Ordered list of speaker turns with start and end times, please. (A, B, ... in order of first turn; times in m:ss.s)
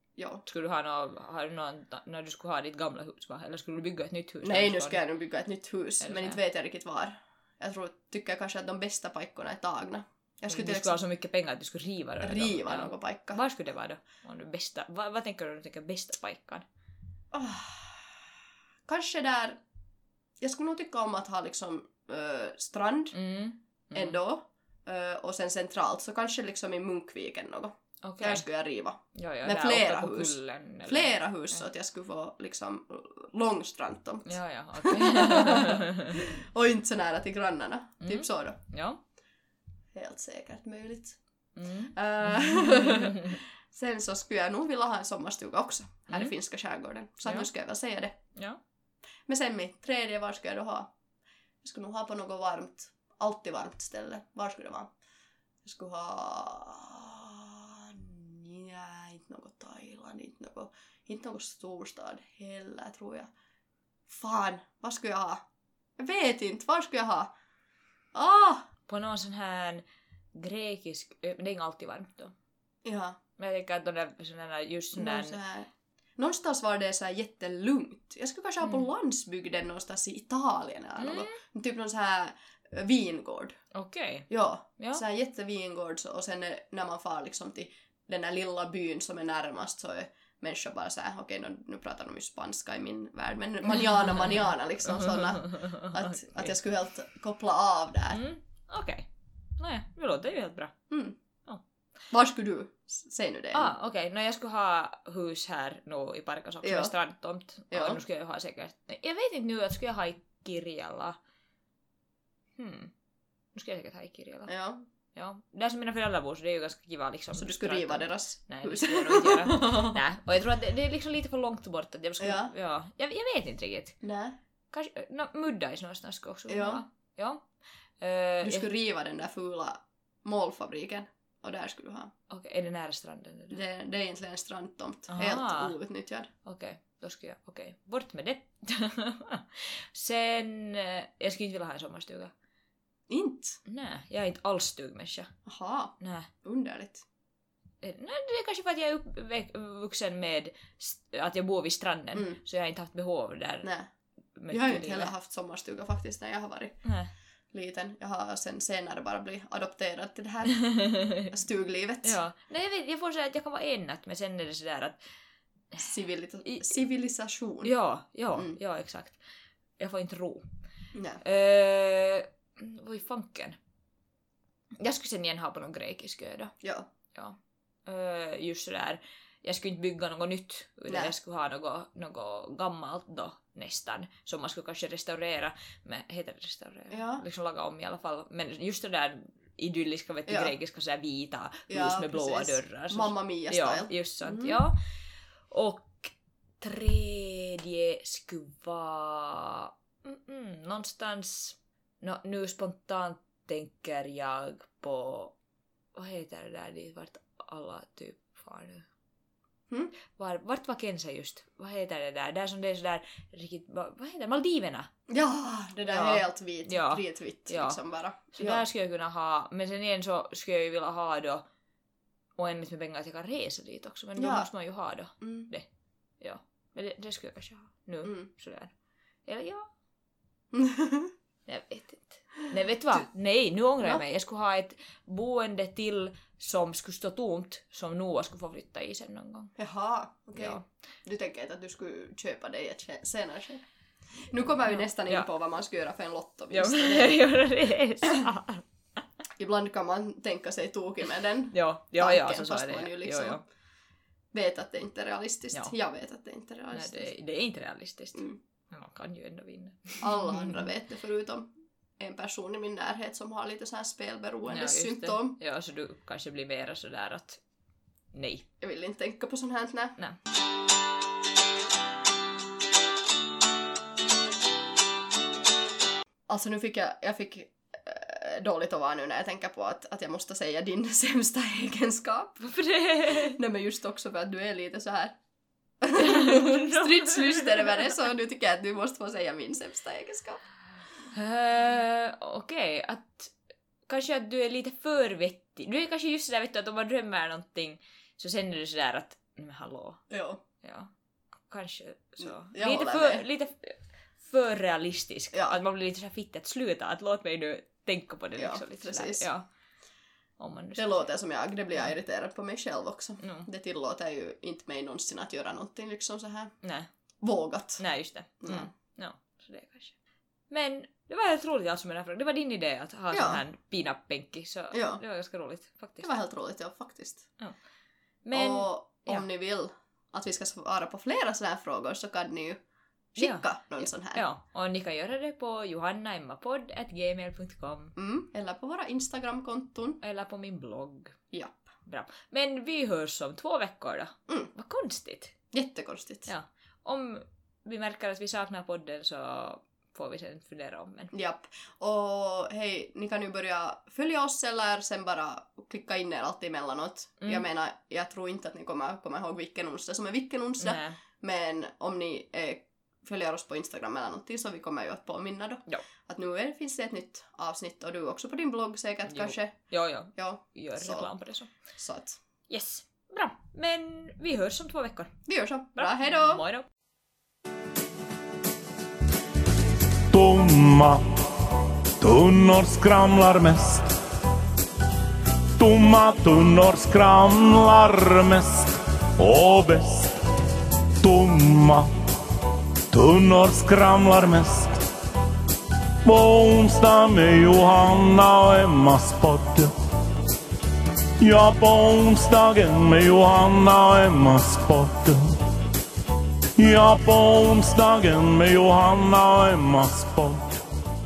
0:00.2-0:00.4 A
0:00.4-0:05.0 B
0:04.4-0:11.0 A
0:06.0-0:06.4 B
0:10.5-0:16.6 B
0:12.2-0:13.4 A
0:17.3-0:18.2 A
0:18.8-0:19.6 A
0:20.4-0:23.1 A
0:23.1-0:24.2 B
0:23.9-0:38.6 A
0:28.0-0:28.4 B
0:29.1-0:31.6 B
0:34.2-0:36.2 B
0:38.0-0:39.0 B
0:39.9-0:41.2 A
0:41.6-0:43.4 B
0:41.9-0:48.2 A
0:46.1-0:46.3 B
0:49.3-0:50.9 A
0:51.6-0:54.9 A
0:55.6-1:03.3 A
1:04.1-1:05.4 A
1:06.0-1:07.3 A
1:08.1-1:08.6 A
1:08.9-1:12.3 B
1:12.8-1:13.2 A
1:13.4-1:15.4 B
1:14.9-1:23.6 A
1:21.0-1:21.4 B
1:23.7-1:25.0 B
1:24.3-1:38.2 A
1:35.0-1:36.5 B
1:38.1-1:40.7 B
1:40.9-1:41.2 A
1:42.1-1:43.7 A
1:43.5-1:51.2 B
1:46.6-1:46.9 A
1:47.7-1:48.0 A
1:52.6-1:52.9 B
1:53.5-1:54.5 B
1:54.5-1:54.8 A
1:55.1-2:04.0 B
1:57.3-2:00.0 A
2:02.2-2:02.5 A
2:04.0-2:04.4 A
2:04.7-2:07.5 B
2:06.5-2:06.8 A
2:08.0-2:08.7 B
2:08.4-2:12.1 A
2:12.3-2:13.6 B
2:13.5-2:16.3 A
2:15.1-2:15.8 B
2:16.4-2:22.3 B
2:23.1-2:23.6 A
2:23.6-2:25.3 B
2:25.4-2:27.0 A
2:26.0-2:26.3 B
2:27.8-2:33.7 B
2:32.1-2:32.4 A
2:33.6-2:33.9 A
2:34.3-2:35.1 B
2:34.5-2:36.8 A
2:36.8-2:37.1 B
2:37.5-2:42.2 A
2:40.6-2:41.3 B
2:42.0-2:45.0 B
2:45.8-2:47.7 A
2:46.4-2:46.7 B
2:47.6-2:49.2 B
2:49.8-2:50.4 B
2:50.9-2:51.2 A
2:51.2-2:53.6 B
2:54.8-2:56.5 B
2:56.6-2:56.9 A
2:57.1-3:14.8 B
3:06.9-3:07.2 A
3:10.3-3:10.5 A
3:11.7-3:14.6 A
3:15.5-3:25.3 B
3:25.9-3:28.9 B
3:30.1-3:34.9 B
3:35.1-3:38.6 A
3:35.9-3:37.8 B
3:38.3-3:41.4 B
3:42.4-3:45.6 B
3:44.2-3:44.5 A
3:45.2-3:45.5 A
3:46.2-3:48.7 B
3:48.0-3:48.3 A
3:49.2-3:49.7 B
3:50.5-3:51.1 A
3:51.5-3:59.5 B
3:59.6-4:03.6 A
4:00.4-4:00.6 B
4:04.2-4:07.2 A
4:04.7-4:05.3 B
4:06.5-4:08.6 B
4:09.4-4:13.4 A
4:11.5-4:13.4 B
4:14.3-4:17.1 A
4:16.7-4:20.6 B
4:20.0-4:25.4 A
4:24.5-4:27.4 B
4:28.1-4:28.4 B
4:28.6-4:30.0 A
4:36.3-4:42.5 A
4:42.4-4:43.4 B
4:43.0-4:45.2 A
4:45.8-4:50.4 A
4:45.9-4:47.9 B
4:51.1-4:53.3 B
4:53.9-5:00.0 B
5:00.1-5:00.4 A
5:00.6-5:00.9 B
5:01.5-5:09.4 B
5:02.2-5:03.3 A
5:05.3-5:05.6 A
5:08.4-5:09.3 A
5:10.4-5:11.1 B
5:10.8-5:16.5 A
5:13.2-5:13.5 B
5:16.6-5:16.9 B
5:17.2-5:17.8 A
5:17.8-5:19.9 B
5:18.4-5:18.7 A
5:20.5-5:26.1 B
5:23.1-5:23.4 A
5:24.7-5:25.0 A
5:26.0-5:27.3 A
5:28.2-5:29.2 B
5:28.3-5:32.6 A
5:33.1-5:34.2 A
5:33.2-5:37.9 B
5:38.0-5:40.0 A
5:40.0-5:41.2 B
5:41.3-5:41.6 A
5:41.8-5:45.3 B
5:45.5-5:46.3 A
5:46.2-5:51.1 B
5:51.1-6:09.6 A
6:00.6-6:01.0 B
6:09.0-6:11.5 B
6:10.1-6:11.1 A
6:11.8-6:12.2 A
6:12.5-6:15.2 B
6:15.3-6:16.4 A
6:15.8-6:16.7 B
6:20.1-6:21.0 C
6:22.0-6:23.9 C
6:25.6-6:30.2 C
6:31.0-6:31.9 C
6:32.9-6:34.8 C
6:36.0-6:39.7 C
6:41.2-6:45.3 C
6:46.6-6:50.6 C